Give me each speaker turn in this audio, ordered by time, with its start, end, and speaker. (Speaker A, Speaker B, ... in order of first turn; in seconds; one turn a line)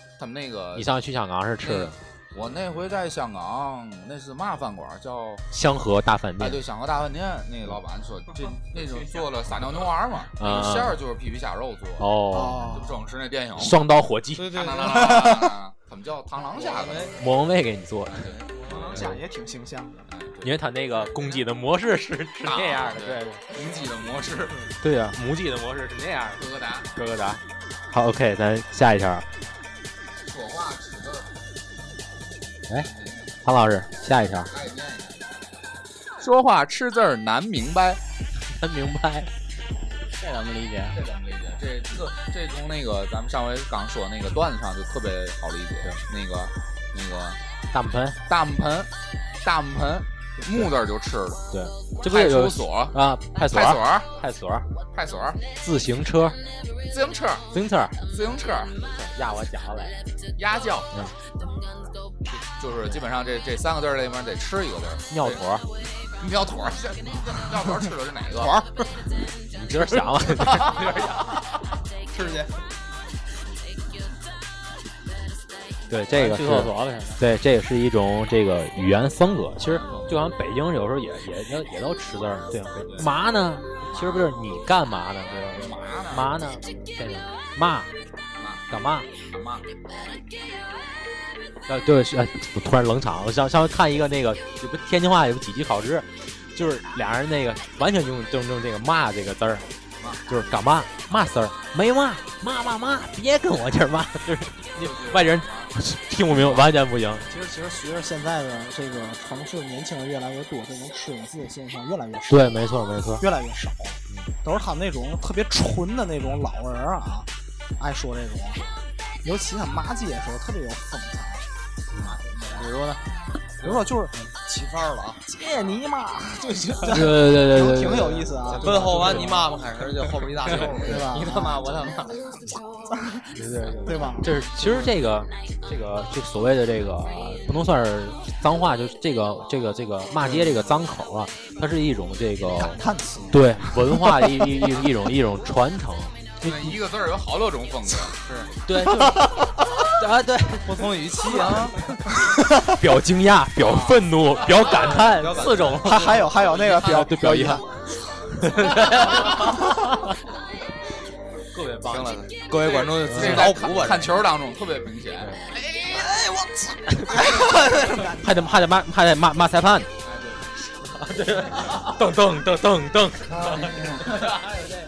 Speaker A: 0.2-0.9
Speaker B: 0.7-2.0
Speaker A: 1.6-5.4
Speaker B: 5.5-6.6
Speaker A: 6.4-12.1
Speaker C: 8.7-9.3
Speaker B: 10.4-11.0
Speaker B: 12.0-12.8
Speaker D: 12.3-13.0
Speaker A: 12.6-13.8
Speaker B: 13.6-14.5
Speaker C: 14.3-15.4
Speaker A: 14.5-17.1
Speaker D: 14.9-15.5
Speaker C: 16.4-17.2
Speaker B: 17.2-18.3
Speaker A: 18.1-19.2
Speaker D: 18.7-20.1
Speaker A: 20.1-21.4
Speaker B: 20.4-23.4
Speaker A: 22.4-24.7
Speaker B: 24.8-26.4
Speaker A: 26.4-26.9
Speaker B: 26.9-29.2
Speaker A: 30.2-31.3
Speaker A: 32.9-33.3
Speaker B: 33.4-34.5
Speaker A: 34.5-35.5
Speaker A: 36.2-38.0
Speaker B: 38.4-39.3
Speaker E: 40.1-41.0
Speaker A: 40.9-47.4
Speaker B: 47.7-48.2
Speaker A: 48.3-48.9
Speaker A: 49.4-51.4
Speaker B: 50.4-50.7
Speaker B: 51.5-54.7
Speaker A: 52.0-54.1
Speaker A: 54.9-55.4
Speaker B: 55.6-56.4
Speaker A: 56.9-57.5
Speaker B: 57.5-58.0
Speaker A: 58.1-58.7
Speaker B: 58.8-60.0
Speaker A: 60.4-60.9
Speaker A: 62.6-65.4
Speaker B: 65.1-65.6
Speaker A: 66.2-68.5
Speaker C: 68.4-68.9
Speaker B: 69.5-70.9
Speaker A: 70.3-71.1
Speaker C: 70.5-71.2
Speaker C: 72.1-72.5
Speaker B: 75.9-87.9
Speaker E: 76.1-77.2
Speaker A: 79.7-80.0
Speaker A: 83.9-84.3
Speaker A: 85.2-86.4
Speaker A: 88.4-88.6
Speaker B: 88.7-89.1
Speaker A: 89.3-89.7
Speaker B: 91.7-99.7
Speaker B: 100.3-107.3
Speaker A: 104.8-105.7
Speaker D: 107.3-112.5
Speaker B: 112.3-113.2
Speaker D: 113.2-118.6
Speaker D: 119.2-121.5
Speaker B: 121.9-123.0
Speaker A: 122.0-122.7
Speaker E: 122.6-123.0
Speaker D: 123.6-124.1
Speaker C: 124.4-125.2
Speaker D: 125.3-129.4
Speaker B: 126.8-129.4
Speaker C: 128.5-131.1
Speaker D: 130.8-131.7
Speaker E: 131.1-132.3
Speaker D: 132.9-134.3
Speaker B: 133.3-146.8
Speaker D: 142.5-144.3
Speaker A: 146.4-148.2
Speaker C: 148.1-148.5
Speaker B: 148.7-151.6
Speaker D: 148.9-149.4
Speaker C: 150.6-151.9
Speaker D: 152.2-152.8
Speaker B: 152.6-156.1
Speaker A: 153.6-154.8
Speaker C: 154.5-156.4
Speaker E: 155.4-155.8
Speaker D: 155.8-157.7
Speaker A: 156.5-157.0
Speaker B: 156.7-157.7
Speaker B: 158.3-159.9
Speaker D: 159.3-159.8
Speaker B: 161.5-162.2
Speaker C: 161.7-164.2
Speaker A: 162.6-166.1
Speaker B: 163.0-163.7
Speaker D: 165.8-168.6
Speaker B: 166.9-169.9
Speaker A: 170.0-170.5
Speaker B: 170.8-174.0
Speaker A: 171.6-171.9
Speaker D: 173.5-173.8
Speaker A: 173.5-174.5